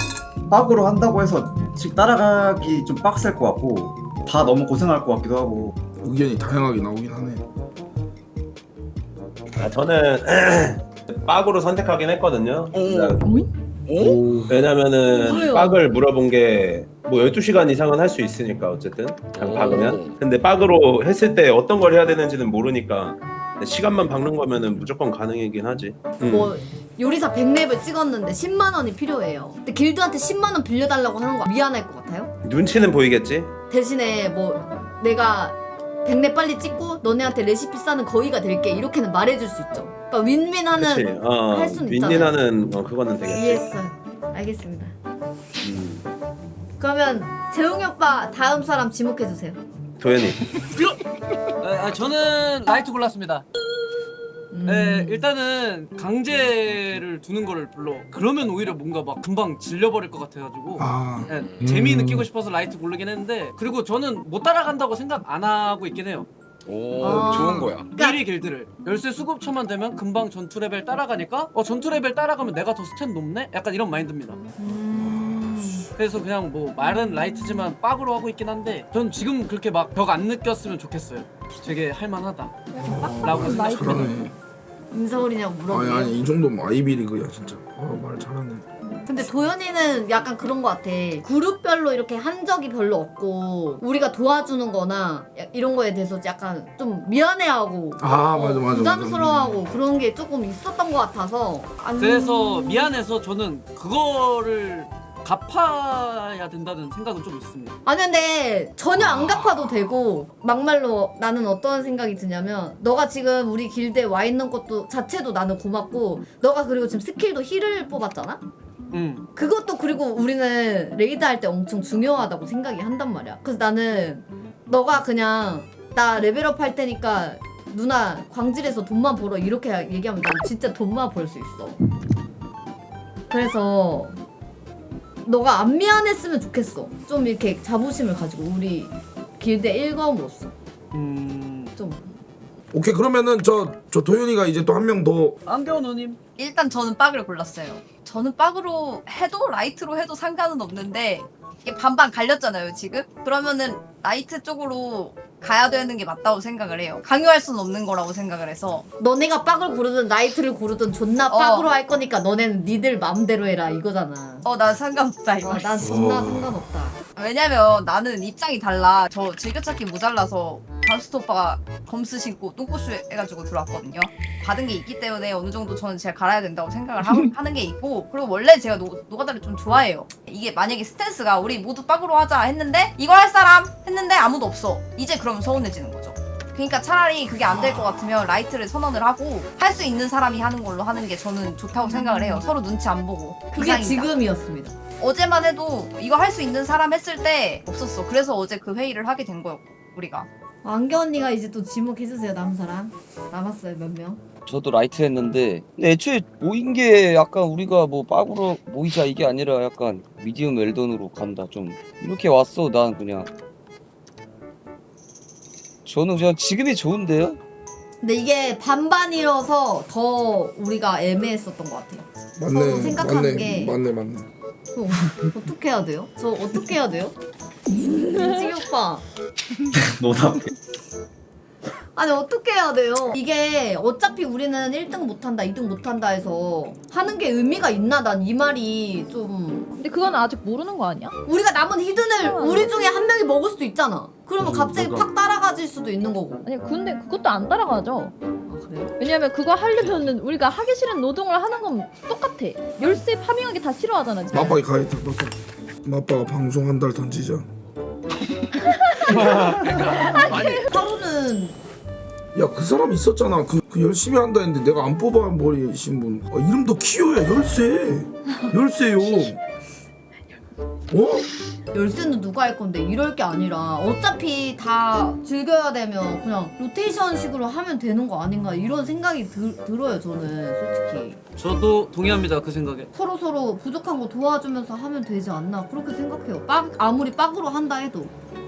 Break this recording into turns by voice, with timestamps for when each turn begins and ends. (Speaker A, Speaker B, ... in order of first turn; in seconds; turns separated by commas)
Speaker A: 0.5-5.8, Speaker B: 6.0-7.4, Speaker C: 9.6-13.4, Speaker D: 12.7-13.3, Speaker D: 13.9-14.2, Speaker C: 14.5-26.6, Speaker E: 15.2-15.8, Speaker D: 19.3-20.2, Speaker E: 26.2-32.3, Speaker C: 32.4-33.5, Speaker E: 33.7-42.4, Speaker C: 40.8-43.7, Speaker E: 43.2-44.9, Speaker C: 45.6-46.1, Speaker E: 46.8-49.6, Speaker C: 50.0-50.4, Speaker F: 51.6-53.5, Speaker E: 54.5-55.2, Speaker F: 54.7-66.3, Speaker B: 60.8-61.3, Speaker D: 61.3-61.7, Speaker D: 66.7-67.9, Speaker E: 67.0-68.2, Speaker F: 67.9-74.5, Speaker E: 74.6-75.4, Speaker B: 74.9-75.9, Speaker F: 76.0-82.7, Speaker G: 82.7-84.1, Speaker B: 82.8-84.3, Speaker F: 83.2-84.1, Speaker E: 84.9-86.2, Speaker B: 85.7-88.6, Speaker E: 89.0-102.9, Speaker B: 98.0-99.6, Speaker F: 102.0-107.8, Speaker E: 107.8-118.4, Speaker F: 118.9-119.3, Speaker E: 119.3-131.8, Speaker E: 133.3-134.2, Speaker E: 135.2-140.5, Speaker F: 140.9-141.7, Speaker E: 141.8-142.1, Speaker B: 142.7-145.4, Speaker F: 145.5-146.2, Speaker H: 146.4-158.9, Speaker E: 159.0-164.4, Speaker H: 161.3-161.7, Speaker H: 164.4-165.8, Speaker E: 165.4-167.0, Speaker B: 165.8-166.6, Speaker H: 167.2-194.1, Speaker E: 193.5-194.8, Speaker H: 195.0-200.3, Speaker E: 200.6-204.2, Speaker I: 204.4-213.3, Speaker I: 215.8-217.4, Speaker E: 218.0-223.8, Speaker B: 222.4-224.2, Speaker E: 224.7-227.1, Speaker E: 227.8-229.0, Speaker A: 229.8-230.5, Speaker E: 231.9-239.7, Speaker G: 239.8-241.2, Speaker E: 241.2-246.4, Speaker G: 242.2-242.7, Speaker G: 246.4-248.1, Speaker E: 248.5-248.9, Speaker G: 249.0-254.6, Speaker B: 254.3-257.5, Speaker D: 259.6-260.6, Speaker E: 260.1-261.6, Speaker B: 262.4-269.4, Speaker B: 270.9-271.3, Speaker E: 271.7-281.2, Speaker F: 281.4-282.9, Speaker E: 282.9-288.1